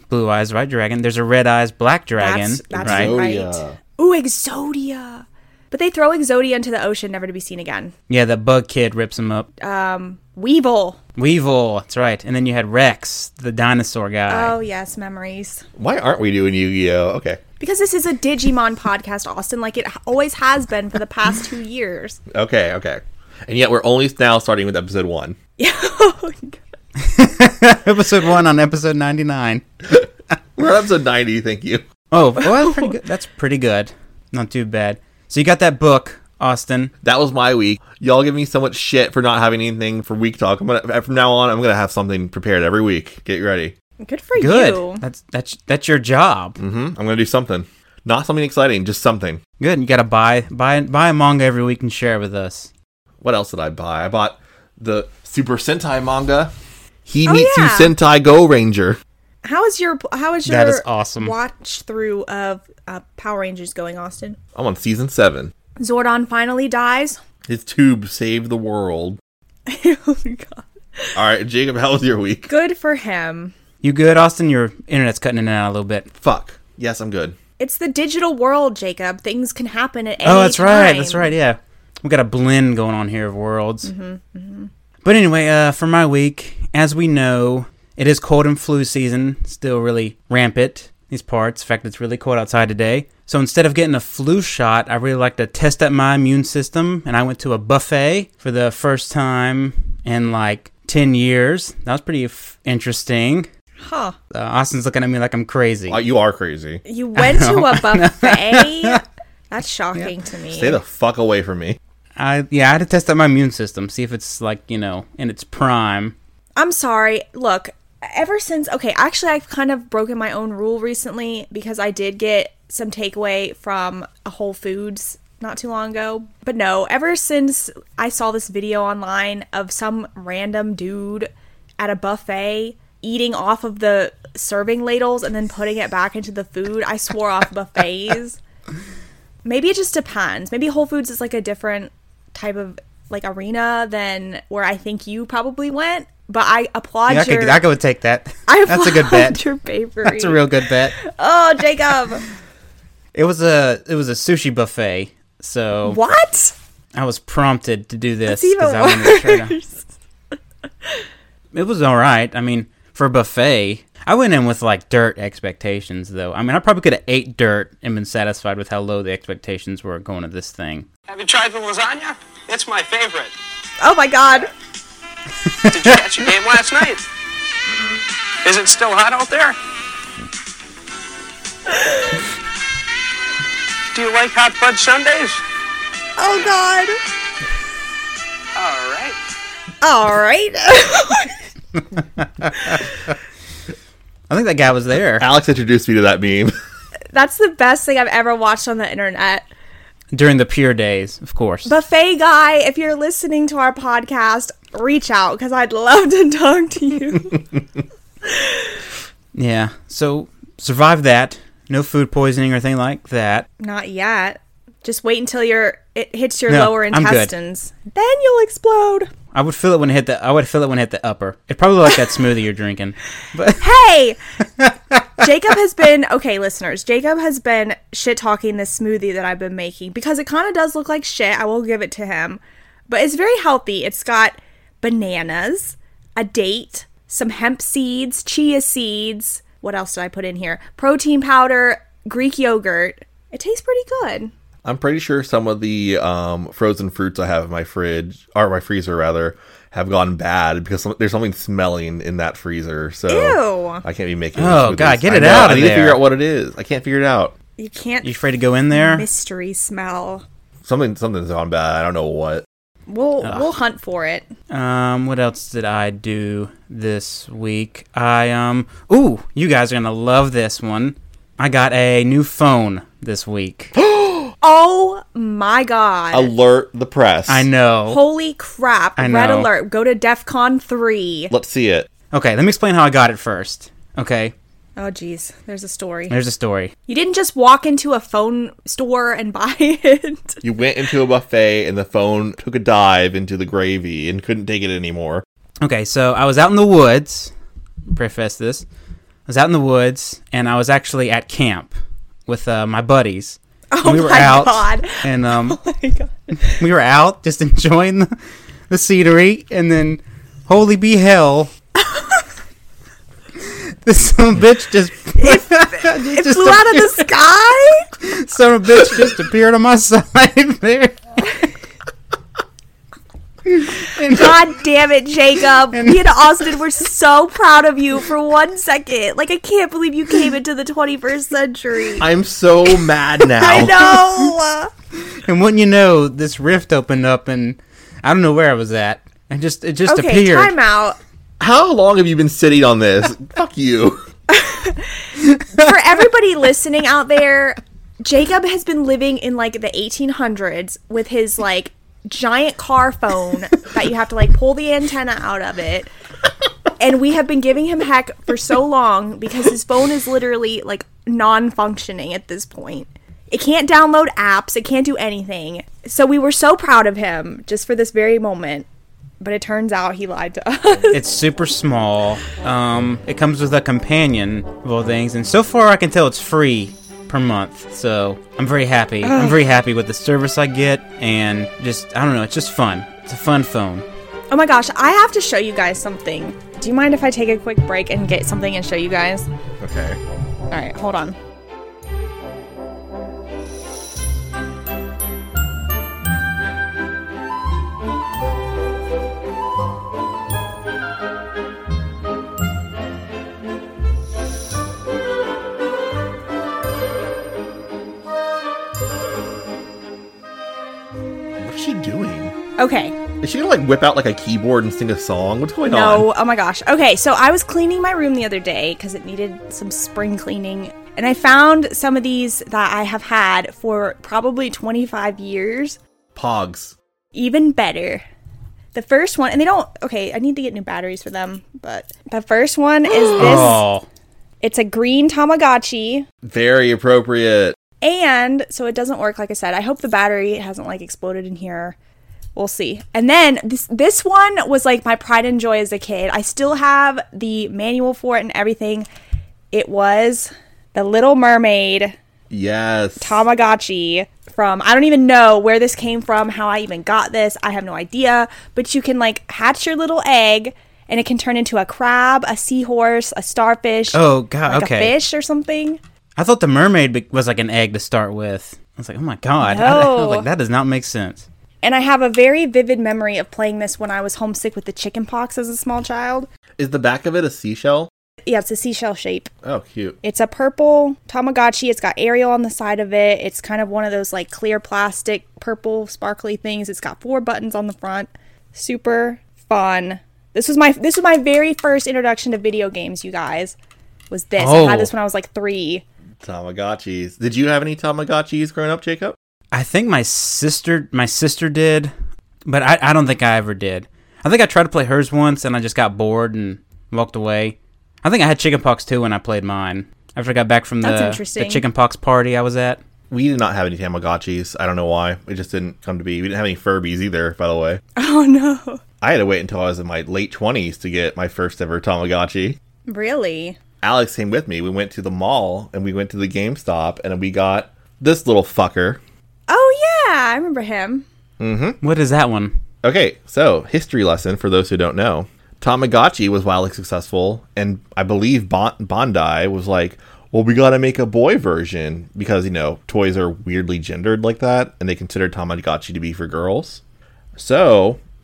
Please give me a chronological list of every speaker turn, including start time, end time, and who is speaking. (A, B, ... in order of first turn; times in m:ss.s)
0:00.1-0:03.2 A
0:02.2-0:07.9 B
0:02.8-0:03.8 C
0:08.1-0:09.5 A
0:09.6-0:11.0 B
0:11.2-0:14.6 A
0:14.3-0:15.6 B
0:15.8-0:17.4 C
0:17.6-0:22.2 B
0:22.3-0:25.4 C
0:25.6-0:26.6 B
0:27.0-0:29.6 A
0:30.6-0:31.9 C
0:32.1-0:36.9 A
0:32.6-0:32.9 B
0:37.0-0:43.7 C
0:44.0-0:45.0 B
0:44.4-0:46.6 A
0:46.6-0:49.4 C
0:49.6-0:52.7 A
0:53.2-0:56.5 C
0:57.1-0:59.0 C
0:57.3-0:57.9 B
0:59.4-1:04.4 B
1:00.5-1:01.3 A
1:04.6-1:05.5 C
1:05.8-1:07.2 B
1:07.5-1:09.2 C
1:09.7-1:11.2 B
1:11.2-1:12.5 C
1:12.5-1:13.5 B
1:13.8-1:16.1 A
1:16.1-1:17.4 C
1:17.6-1:21.3 B
1:20.2-1:23.9 A
1:23.8-1:24.7 B
1:25.0-1:43.5 A
1:43.8-1:44.2 B
1:44.3-1:46.0 A
1:45.9-1:46.8 C
1:46.8-1:50.8 B
1:47.2-1:49.0 A
1:50.5-1:51.8 C
1:52.2-1:56.2 A
1:56.6-2:18.4 B
2:19.4-2:27.6 B
2:27.1-2:29.4 A
2:28.5-2:30.4 B
2:30.0-2:31.0 A
2:31.0-2:32.2 B
2:33.1-2:36.0 A
2:35.8-2:36.5 B
2:36.9-2:39.6 A
2:38.3-2:39.9 B
2:41.5-2:50.9 A
2:51.1-2:53.4 D
2:53.8-2:54.5 B
2:55.6-2:56.0 A
2:55.7-2:57.0 D
2:58.4-2:59.6 D
3:03.9-3:05.4 D
3:06.2-3:07.0 B
3:08.6-3:09.2 D
3:09.8-3:11.4 B
3:12.4-3:12.8 A
3:14.3-3:15.3 A
3:15.2-3:16.5 C
3:17.1-3:19.5 B
3:20.1-3:21.7 A
3:21.6-3:27.5 B
3:28.3-3:28.6 B
3:29.3-3:33.5 A
3:33.6-3:39.1 B
3:36.5-3:37.3 A
3:39.3-3:43.7 A
3:43.6-3:44.2 B
3:45.2-4:04.3 B
4:04.6-4:17.4 C
4:13.1-4:13.8 B
4:14.4-4:16.0 A
4:17.6-4:18.2 B
4:18.0-4:19.1 A
4:18.7-4:20.2 B
4:20.6-4:22.4 C
4:22.9-4:24.3 B
4:24.5-4:33.7 A
4:33.8-4:34.3 C
4:34.4-4:36.3 B
4:36.1-4:37.5 C
4:37.3-4:38.0 A
4:37.9-4:41.3 B
4:39.0-4:39.5 A
4:41.3-4:41.9 C
4:42.1-4:44.3 A
4:44.8-4:46.2 B
4:46.1-4:46.7 A
4:46.9-4:50.4 B
4:50.4-4:55.2 C
4:55.6-4:57.3 A
4:57.9-4:58.7 A
4:59.3-5:01.7 A
5:02.3-5:05.6 A
5:03.7-5:06.6 B
5:06.5-5:08.1 A
5:08.7-5:11.5 A
5:11.9-5:12.2 B
5:13.5-5:17.1 A
5:15.2-5:17.9 B
5:18.0-5:21.0 A
5:23.5-5:24.5 A
5:24.1-5:32.1 B
5:25.7-5:26.3 A
5:32.0-5:34.0 C
5:33.3-5:34.7 B
5:35.2-5:40.5 A
5:39.9-5:41.0 B
5:41.4-5:44.0 C
5:44.3-5:55.9 B
5:56.8-6:08.7 B
6:09.2-6:11.0 B
6:10.9-6:23.9 A
6:19.0-6:19.4 B
6:24.3-6:29.3 B
6:29.6-6:30.0 C
6:30.5-6:31.2 B
6:51.4-6:52.3 C
6:52.6-6:53.0 B
6:53.2-6:56.1 C
6:55.7-7:05.8 B
7:06.2-7:06.8 C
7:07.2-7:08.0 B
7:08.7-7:13.6 B
7:13.2-7:13.9 A
7:14.4-7:16.1 B
7:16.2-7:17.6 C
7:17.8-7:21.8 B
7:22.4-7:28.9 B
7:29.5-7:32.0 B
7:32.3-7:33.2 C
7:33.0-7:45.8 B
7:43.9-7:45.0 A
7:46.2-7:51.3 A
7:49.4-7:50.3 B
7:51.6-7:56.3 B
7:56.6-7:57.9 C
7:58.3-7:59.3 B
7:59.4-8:00.0 C
8:00.0-8:13.6 B
8:14.1-8:15.8 B
8:14.4-8:14.9 A
8:16.2-8:19.2 C
8:19.5-8:21.9 A
8:22.5-8:32.8 A
8:30.8-8:31.6 B
8:33.1-8:37.8 C
8:38.0-8:38.8 B
8:39.0-8:42.6 C
8:42.9-8:43.6 B
8:43.8-8:49.0 C
8:49.5-8:51.1 B
8:51.4-8:51.8 C
8:51.8-8:52.5 A
8:52.8-9:06.8 C
9:07.4-9:08.0 C